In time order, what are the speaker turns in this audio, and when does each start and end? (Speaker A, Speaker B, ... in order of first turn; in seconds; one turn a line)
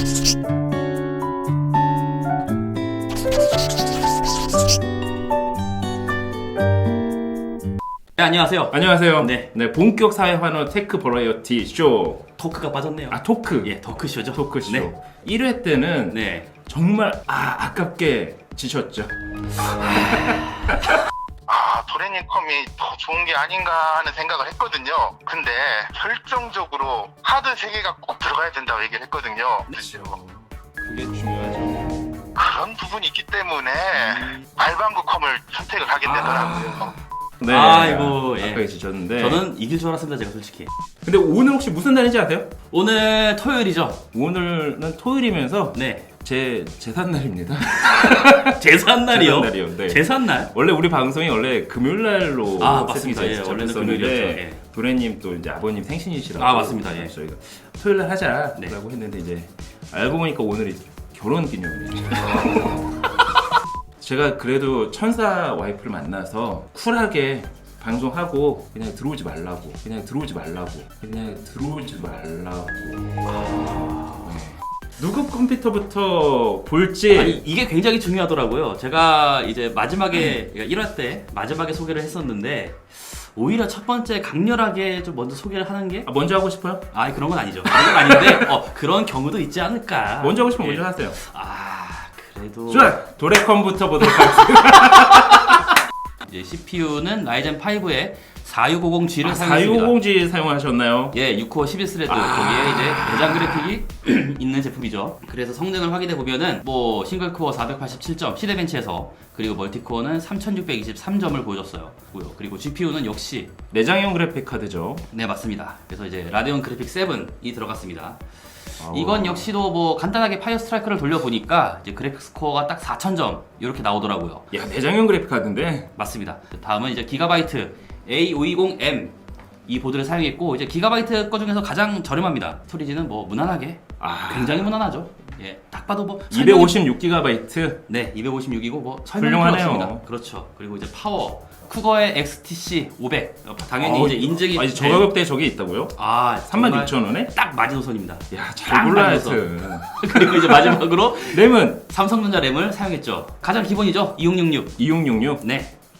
Speaker A: 8.2-9.5
Speaker B: 8.7-12.3
Speaker A: 12.4-14.9
Speaker B: 13.1-13.8
Speaker B: 14.3-20.8
Speaker A: 16.1-16.5
Speaker C: 21.5-29.7
Speaker B: 29.7-31.9
Speaker C: 32.3-36.4
Speaker A: 36.0-36.8
Speaker B: 36.0-39.4
Speaker A: 37.4-40.7
Speaker B: 41.0-42.5
Speaker A: 42.7-44.0
Speaker B: 44.1-62.9
Speaker A: 45.7-46.1
Speaker A: 47.7-50.5
Speaker A: 52.6-54.6
Speaker A: 56.4-57.1
Speaker B: 64.0-73.0
Speaker A: 73.3-74.2
Speaker B: 74.2-77.4
Speaker A: 77.1-86.1
Speaker B: 80.1-80.4
Speaker B: 86.0-86.9
Speaker A: 86.9-93.0
Speaker B: 87.6-88.5
Speaker B: 90.2-91.2
Speaker B: 92.7-95.5
Speaker A: 94.0-95.5
Speaker A: 96.2-99.9
Speaker B: 99.2-101.2
Speaker A: 101.1-113.5
Speaker B: 102.0-103.7
Speaker B: 113.7-115.0
Speaker A: 115.1-118.2
Speaker B: 118.8-119.5
Speaker A: 118.8-124.5
Speaker B: 124.5-125.9
Speaker A: 125.9-129.2
Speaker A: 129.7-136.8
Speaker B: 134.0-134.8
Speaker B: 136.3-137.8
Speaker A: 137.9-145.1
Speaker B: 139.1-140.0
Speaker B: 143.8-147.3
Speaker A: 145.9-154.7
Speaker B: 148.3-151.8
Speaker B: 154.8-155.4
Speaker A: 155.4-155.7